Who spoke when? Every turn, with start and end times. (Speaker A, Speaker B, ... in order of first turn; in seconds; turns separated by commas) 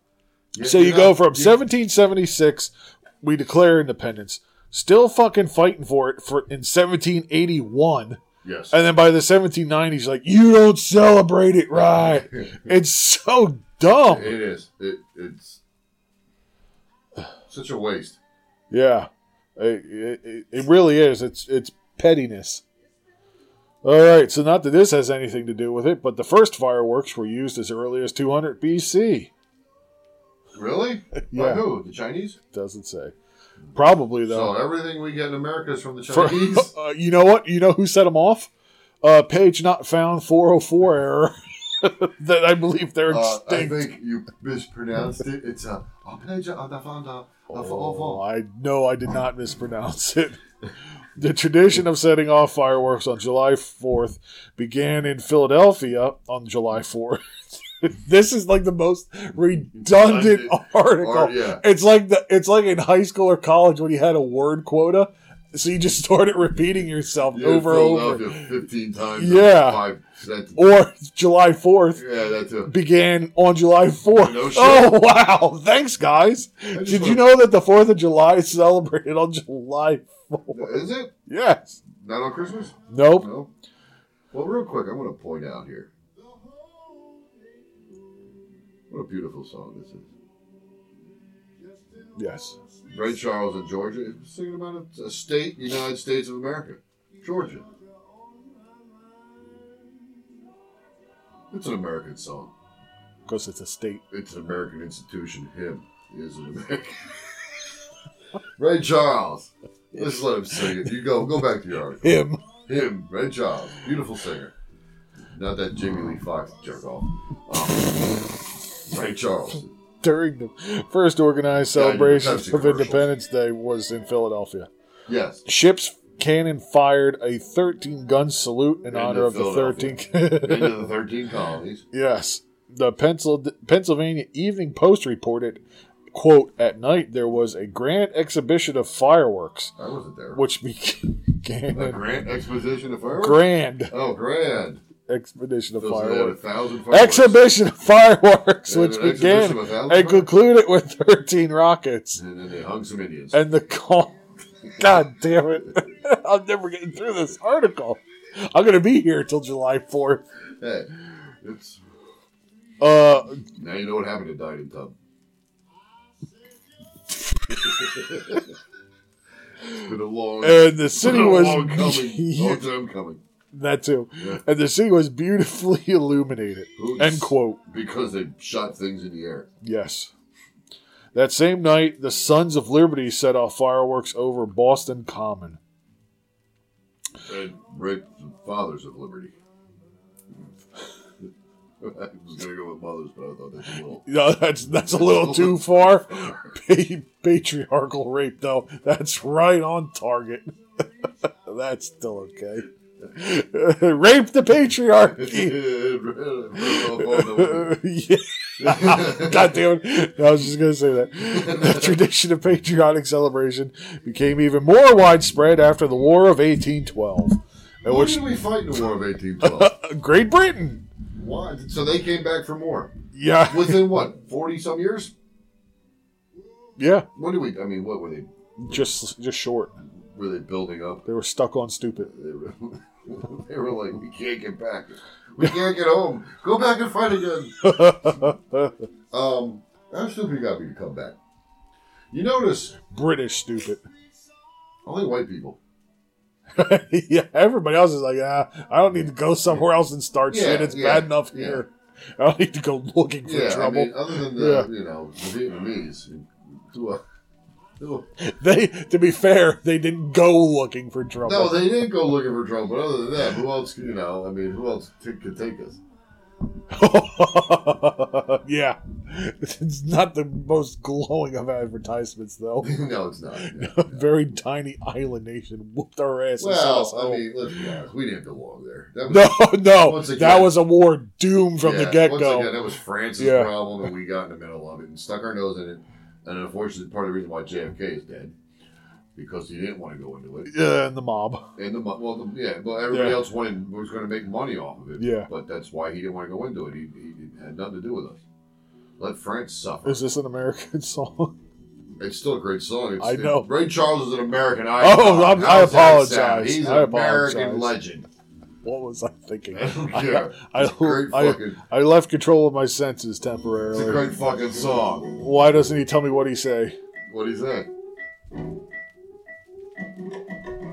Speaker A: 0.5-1.6, Speaker B: 0.6-14.4, Speaker A: 8.4-8.8, Speaker A: 11.7-12.7, Speaker A: 14.0-15.6, Speaker A: 17.5-18.2, Speaker B: 18.7-22.6, Speaker B: 23.8-29.3, Speaker A: 30.5-32.4, Speaker B: 31.2-31.6, Speaker B: 32.5-33.1, Speaker B: 33.7-34.5, Speaker A: 34.2-36.7, Speaker B: 36.1-38.5, Speaker B: 39.0-43.9, Speaker A: 43.1-48.2, Speaker B: 47.5-50.4, Speaker B: 51.2-57.2, Speaker B: 57.8-68.5, Speaker A: 59.8-61.6, Speaker A: 67.3-70.7, Speaker B: 69.2-69.8, Speaker B: 70.5-72.0, Speaker A: 71.9-72.7, Speaker B: 72.6-81.8, Speaker A: 74.1-75.0, Speaker A: 76.7-77.3, Speaker A: 80.5-81.1, Speaker A: 81.9-83.5, Speaker B: 82.9-83.3, Speaker A: 84.3-85.9, Speaker A: 88.9-90.1, Speaker B: 92.2-92.5, Speaker A: 92.9-97.7, Speaker A: 101.5-102.5, Speaker B: 103.2-104.0, Speaker A: 104.1-107.5, Speaker A: 108.6-112.1, Speaker B: 112.0-112.4, Speaker A: 112.7-114.5, Speaker A: 115.3-119.7, Speaker B: 120.0-124.7, Speaker A: 121.7-123.1, Speaker A: 125.1-125.4, Speaker B: 125.5-130.8, Speaker A: 128.9-131.8, Speaker B: 131.9-139.7, Speaker A: 139.8-140.4, Speaker B: 140.3-142.0, Speaker A: 141.7-144.8, Speaker B: 143.2-143.9, Speaker B: 145.1-152.2, Speaker A: 145.8-147.4, Speaker A: 148.7-150.3, Speaker A: 152.1-153.4, Speaker B: 153.3-154.2, Speaker B: 154.8-160.2, Speaker A: 160.6-161.8, Speaker B: 162.8-163.4, Speaker A: 163.5-164.9, Speaker A: 167.6-168.5, Speaker A: 169.8-173.2, Speaker B: 170.4-172.7, Speaker B: 173.5-177.6, Speaker A: 174.2-174.4, Speaker A: 176.8-179.5, Speaker B: 179.6-180.1, Speaker B: 181.1-185.6, Speaker A: 187.2-189.3, Speaker A: 191.8-194.1, Speaker B: 194.0-200.6, Speaker A: 194.8-196.5, Speaker B: 201.4-205.6, Speaker A: 205.2-207.8, Speaker B: 206.6-218.3, Speaker A: 208.6-209.6, Speaker A: 211.2-212.0, Speaker A: 217.8-219.7, Speaker B: 219.4-220.8, Speaker A: 221.1-222.9, Speaker B: 223.1-224.1, Speaker A: 223.4-225.1, Speaker B: 226.8-227.1, Speaker A: 227.1-228.3, Speaker B: 228.6-229.7, Speaker A: 229.9-231.1, Speaker B: 231.1-232.1, Speaker A: 232.1-238.2, Speaker B: 237.6-238.7, Speaker A: 239.1-241.2, Speaker A: 242.1-242.8, Speaker B: 242.9-243.8, Speaker A: 244.8-245.6, Speaker B: 246.6-254.7, Speaker A: 250.3-251.6, Speaker A: 253.2-257.0, Speaker A: 257.8-258.1, Speaker B: 258.2-261.8, Speaker A: 261.2-265.8, Speaker B: 266.7-272.8, Speaker A: 272.6-274.0, Speaker B: 273.4-277.3, Speaker A: 276.4-280.6, Speaker B: 279.1-282.6, Speaker A: 281.6-288.3, Speaker B: 283.2-283.7, Speaker A: 289.1-290.5, Speaker B: 290.4-291.4, Speaker A: 291.6-298.2, Speaker B: 292.9-293.2, Speaker B: 295.0-295.3, Speaker A: 299.0-300.1, Speaker B: 299.8-301.3, Speaker A: 302.0-308.1, Speaker B: 303.0-303.5, Speaker B: 304.8-307.7, Speaker B: 308.6-314.1, Speaker A: 309.5-311.6, Speaker A: 313.7-315.1, Speaker B: 315.1-316.8, Speaker A: 317.1-317.7